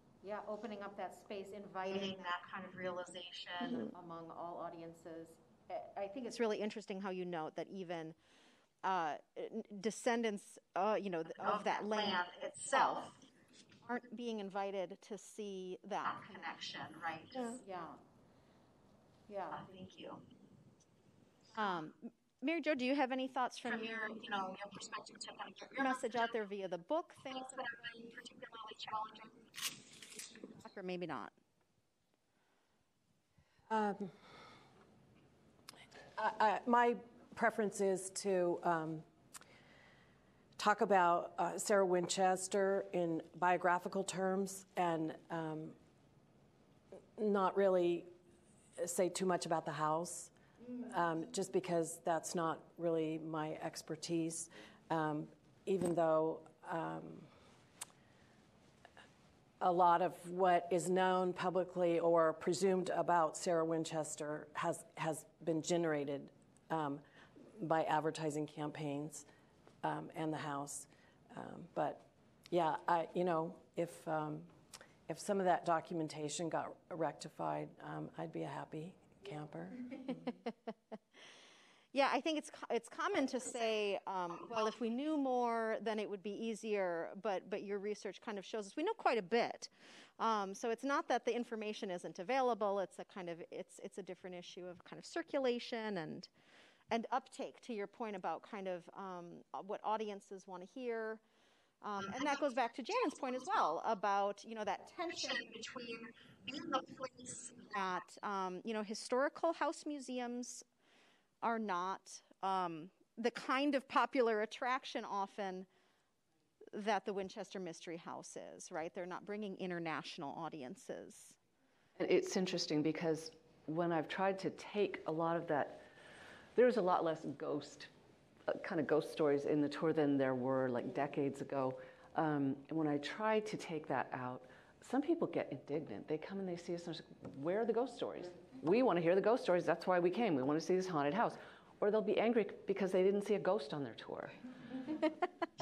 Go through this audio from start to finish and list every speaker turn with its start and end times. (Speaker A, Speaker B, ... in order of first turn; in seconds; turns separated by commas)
Speaker A: 0.2-2.3, Speaker B: 1.9-3.9, Speaker A: 3.7-8.2, Speaker A: 8.8-13.1, Speaker B: 11.4-13.2, Speaker A: 13.8-16.6, Speaker B: 16.0-17.6, Speaker A: 17.4-18.0, Speaker A: 19.3-19.6, Speaker B: 19.4-20.2, Speaker A: 21.5-24.2, Speaker B: 23.6-26.4, Speaker A: 25.8-27.5, Speaker B: 27.2-29.5, Speaker A: 30.6-31.3, Speaker C: 33.7-34.1, Speaker C: 36.1-39.0, Speaker C: 40.6-45.8, Speaker C: 47.1-48.1, Speaker C: 48.8-50.3, Speaker C: 50.8-57.3, Speaker C: 59.6-67.0, Speaker C: 67.6-69.2, Speaker C: 69.8-74.5, Speaker C: 75.1-80.2, Speaker A: 81.9-96.3, Speaker A: 96.9-101.2, Speaker A: 101.8-105.5, Speaker B: 102.0-103.7, Speaker B: 105.1-108.0, Speaker A: 107.7-110.6, Speaker A: 111.4-115.7, Speaker A: 116.7-121.3, Speaker D: 122.0-125.8, Speaker D: 126.5-127.9, Speaker D: 128.5-144.4